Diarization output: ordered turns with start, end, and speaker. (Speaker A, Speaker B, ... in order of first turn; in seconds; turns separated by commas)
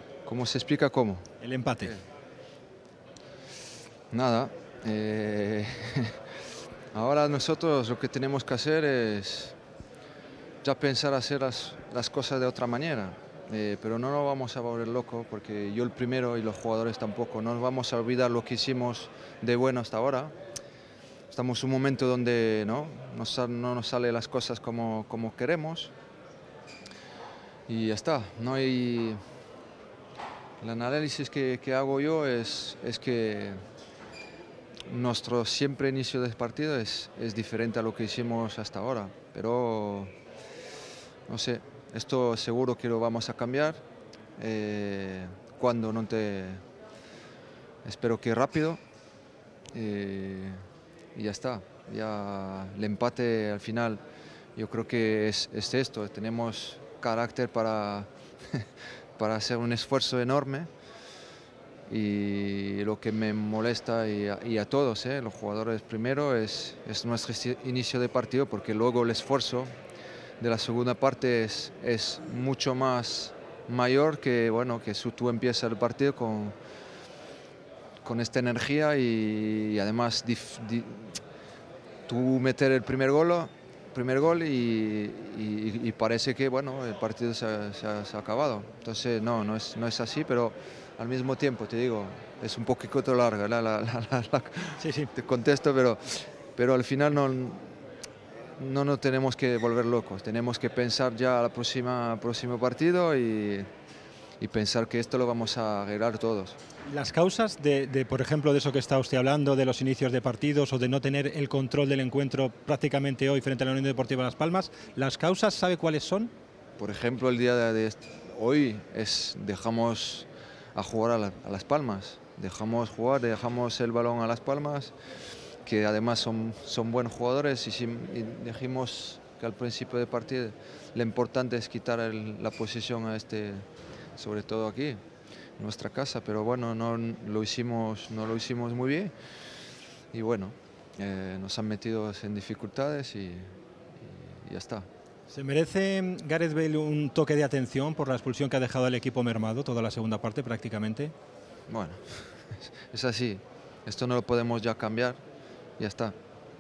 Speaker A: 0.3-1.3, Speaker B: 1.4-1.9, Speaker A: 4.1-6.2, Speaker A: 6.9-9.6, Speaker A: 10.6-20.3, Speaker A: 21.3-25.9, Speaker A: 27.7-29.2, Speaker A: 30.6-33.6, Speaker A: 34.9-40.1, Speaker A: 41.3-43.8, Speaker A: 44.4-46.6, Speaker A: 47.9-48.8, Speaker A: 49.7-50.6, Speaker A: 51.1-54.0, Speaker A: 54.6-58.7, Speaker A: 59.2-60.7, Speaker A: 61.9-69.7, Speaker A: 70.4-76.5, Speaker A: 78.0-81.2, Speaker A: 82.1-97.8, Speaker B: 94.8-95.1, Speaker A: 98.6-103.7, Speaker A: 104.4-106.6, Speaker B: 106.9-116.3, Speaker A: 116.8-124.9, Speaker A: 125.7-133.7, Speaker A: 134.2-135.0, Speaker A: 135.6-139.1, Speaker A: 140.1-144.9, Speaker B: 145.3-151.1, Speaker A: 151.7-155.2, Speaker A: 155.8-156.2